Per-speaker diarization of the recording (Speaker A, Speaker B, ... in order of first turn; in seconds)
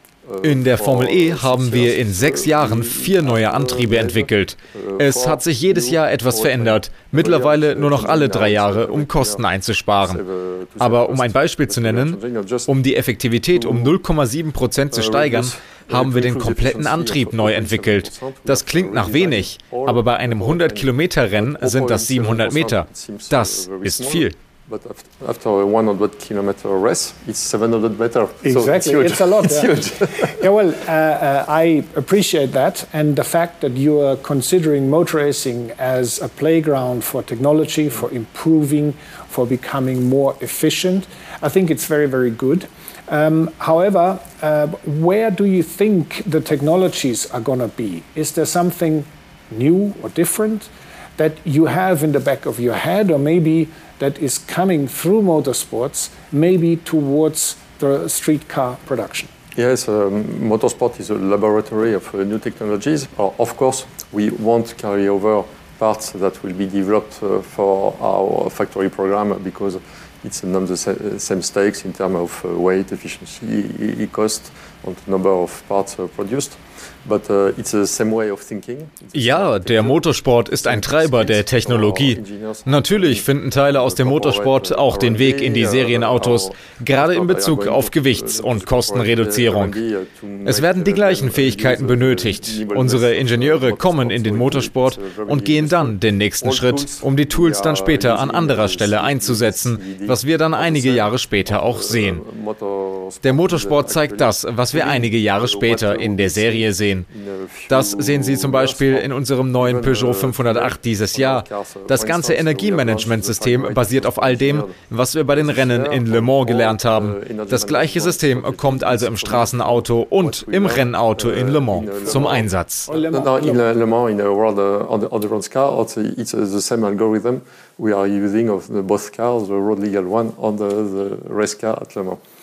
Speaker A: 0.2-9.4, 10.0-12.7, 13.5-13.9, 14.9-30.4, 59.5-132.2
Speaker B: 0.4-10.2, 10.8-24.4, 79.1-89.8, 90.4-102.2, 103.2-107.1, 107.7-122.9
Speaker C: 28.4-59.3, 121.8-123.6